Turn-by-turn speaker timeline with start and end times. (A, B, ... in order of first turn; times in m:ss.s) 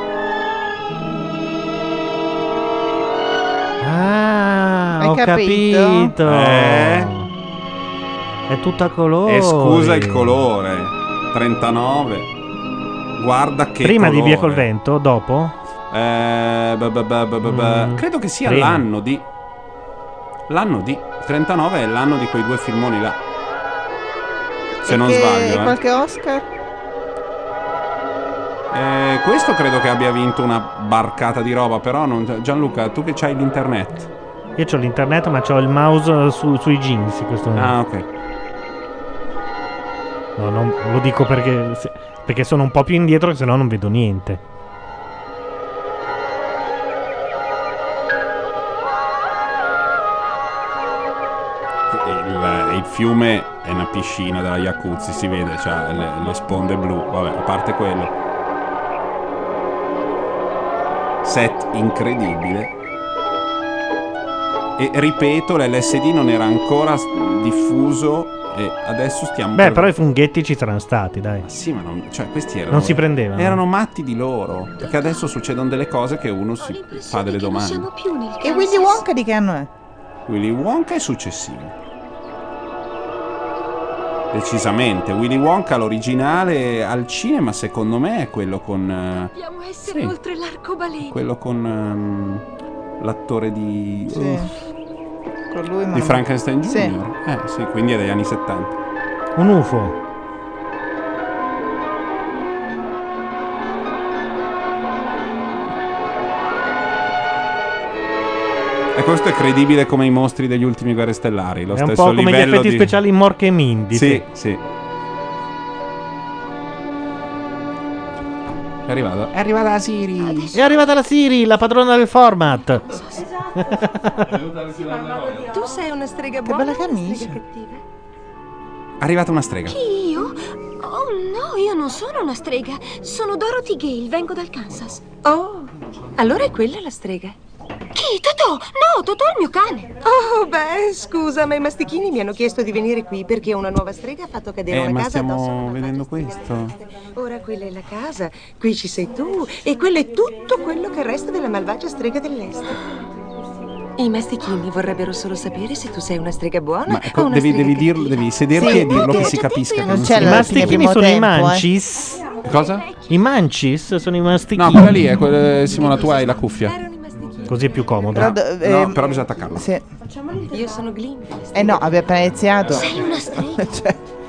0:03.8-0:07.3 A
0:05.0-0:06.1 B
0:06.2-0:07.1 C
0:08.5-0:10.4 A
0:09.2-0:12.3 C
0:13.2-0:14.7 C
0:13.8-0:15.5 A
0:15.9-0:19.2 C
0:17.4-0:18.9 A
0:20.5-0:23.2 C
0:24.8-0:25.8 C
0:24.8-0:26.4 B
0:28.7-0:34.1 C
0:34.6-0:37.8 A
0:37.5-0:38.0 C
0:40.4-0:44.4 A
0:51.9-0:58.1 C
1:01.2-1:02.7 C
1:04.8-1:09.9 C
1:09.6-1:11.4 A
1:11.4-1:17.9 C
1:12.7-1:13.6 A
1:14.8-1:15.4 D
1:16.6-1:19.0 D
1:18.4-1:19.7 B
1:20.3-1:21.7 C
1:24.3-1:29.3 C
1:29.3-1:31.2 D
1:29.8-1:30.1 C
1:31.0-1:32.4 C
1:33.0-1:34.5 C
1:34.1-1:34.5 B
1:35.5-1:36.9 B
1:35.9-1:38.7 C
1:39.4-1:40.0 A
1:48.9-1:52.9 C
1:51.7-1:54.2 A
1:53.9-1:54.6 C
1:58.9-2:00.5 C
2:00.3-2:00.5 D
2:00.5-2:02.8 A
2:03.6-2:04.3 A
2:05.3-2:07.8 E
2:06.4-2:07.4 B
2:09.0-2:09.7 C
2:09.7-2:15.0 D
2:15.2-2:17.4 E
2:17.9-2:19.9 D
2:19.9-2:32.8 E
2:24.7-2:26.8 C
2:34.0-2:38.5 E
2:36.8-2:40.8 C
2:38.6-2:41.6 B
2:38.6-2:40.1 D
2:40.1-2:42.2 A
2:42.4-2:42.8 C
2:43.1-2:45.0 A
2:44.5-2:46.8 C
2:45.7-2:47.6 E
2:47.5-2:48.3 A
2:48.1-2:49.0 B
2:48.2-2:49.6 C
2:49.5-2:49.8 B
2:50.4-2:52.0 E
2:51.5-2:54.0 B
2:52.7-2:53.7 D